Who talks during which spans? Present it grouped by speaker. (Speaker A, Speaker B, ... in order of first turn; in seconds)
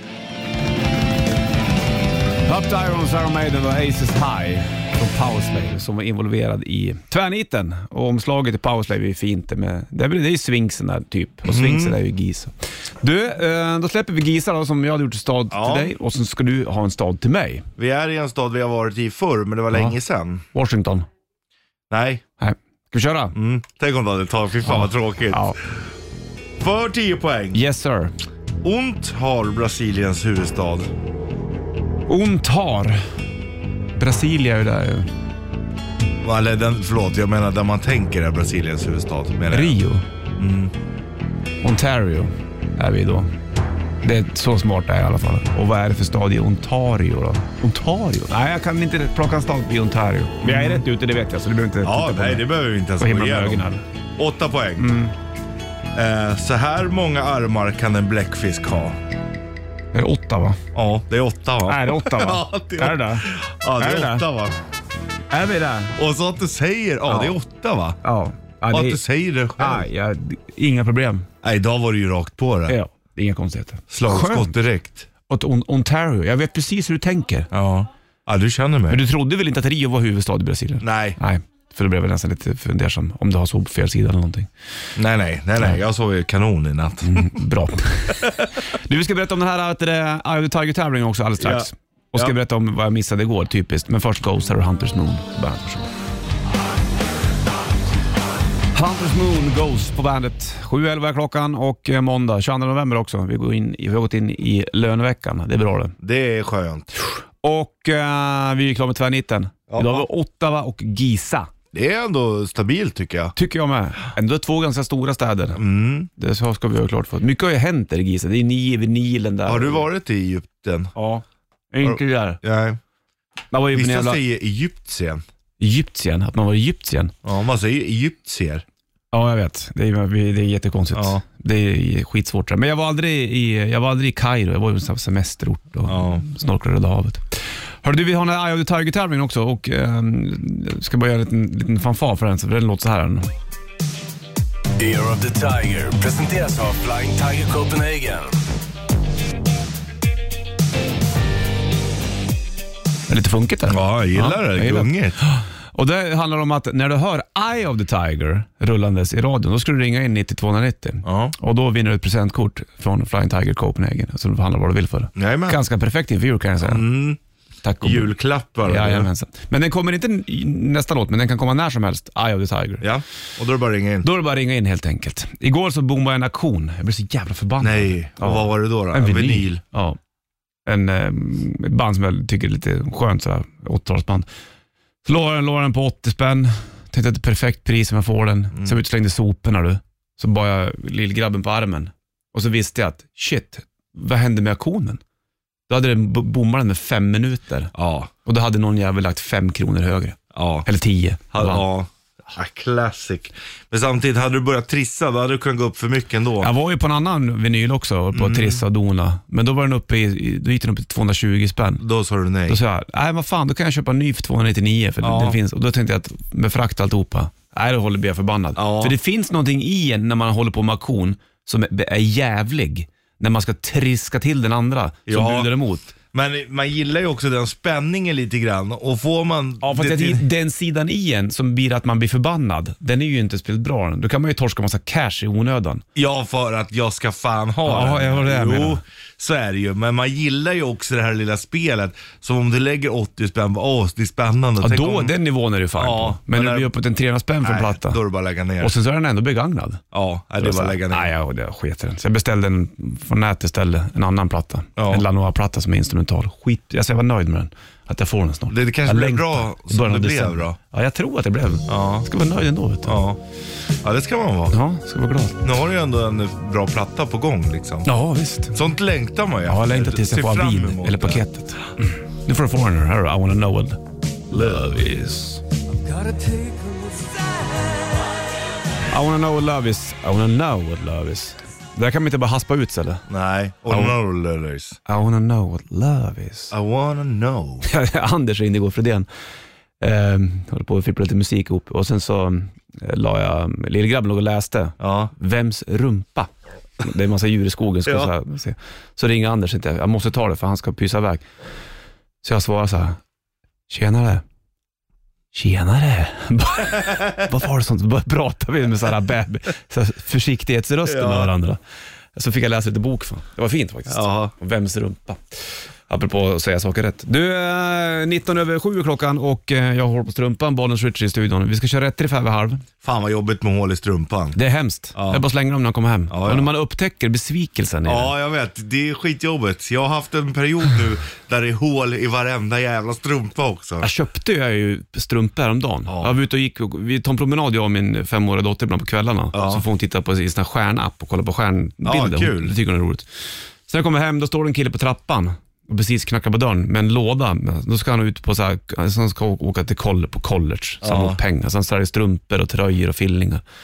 Speaker A: 2.4-17.6, 20.5-21.1, 22.4-23.4, 24.6-25.6, 27.5-28.1, 32.1-33.0, 34.0-35.1, 39.5-40.0, 41.6-43.3, 44.0-52.4, 53.0-53.8, 54.8-55.1, 59.9-60.6, 61.7-64.2, 65.3-66.0, 67.0-67.3, 68.0-69.0, 69.6-71.3, 72.7-74.5, 75.3-77.5, 78.9-84.5, 87.0-95.9, 98.7-105.9, 107.0-111.5, 113.3-115.6, 116.2-119.9, 121.0-122.4, 123.5-124.2, 125.6-127.1, 129.1-143.3, 153.1-166.8, 167.6-168.1, 168.6-172.8, 174.0-180.0, 180.7-184.3, 185.0-195.0, 195.7-197.7, 198.2-201.6, 206.4-211.8, 212.5-225.9, 229.6-235.8, 237.7-238.8, 244.6-248.0, 248.6-249.8, 250.4-263.0, 264.5-265.4, 267.8-268.6, 269.5-275.4, 278.9-283.0, 283.7-283.9, 284.9-286.5, 287.6-289.1, 289.8-301.2, 302.2-303.0, 303.7-304.2, 305.3-311.6, 312.1-315.3, 315.9-322.6, 324.3-328.1, 333.8-343.1, 343.7-353.4
Speaker B: 11.5-12.0, 15.5-15.9, 17.8-20.4, 21.9-22.2, 23.3-25.5, 26.6-27.6, 28.6-30.9, 36.2-39.8, 40.4-40.7, 50.4-50.8, 51.8-54.9, 55.9-59.0, 60.7-64.5, 66.0-68.0, 68.7-69.9, 71.4-72.8, 73.9-75.1, 77.5-79.0, 80.8-81.2, 85.0-87.4, 91.4-92.3, 106.0-106.9, 109.7-110.0, 111.7-113.3, 115.6-116.1, 119.5-120.9, 121.8-122.8, 123.7-125.2, 127.2-128.6, 130.9-131.2, 135.9-136.2, 153.7-155.2, 161.0-161.3, 165.2-165.6, 166.6-167.2, 167.8-169.1, 172.8-174.1, 177.6-179.6, 197.7-198.1, 200.3-200.7, 201.3-206.5, 208.1-208.6, 211.8-212.6, 215.0-215.4, 218.6-218.9, 225.1-225.5, 226.1-230.2, 235.9-245.1, 245.8-246.7, 247.4-248.7, 249.9-251.1, 254.8-255.0, 258.5-260.6, 261.7-262.1, 262.9-263.2, 263.8-264.5, 265.4-267.9, 268.5-271.2, 274.3-274.7, 283.1-284.8, 286.5-287.6, 294.8-295.1, 297.9-298.1, 306.8-307.2, 310.9-311.3, 313.9-314.3, 322.8-324.4, 324.9-325.2, 326.1-326.5, 327.8-333.9, 335.9-336.1, 339.3-339.6, 341.8-342.5, 350.8-351.2
Speaker C: 144.8-148.4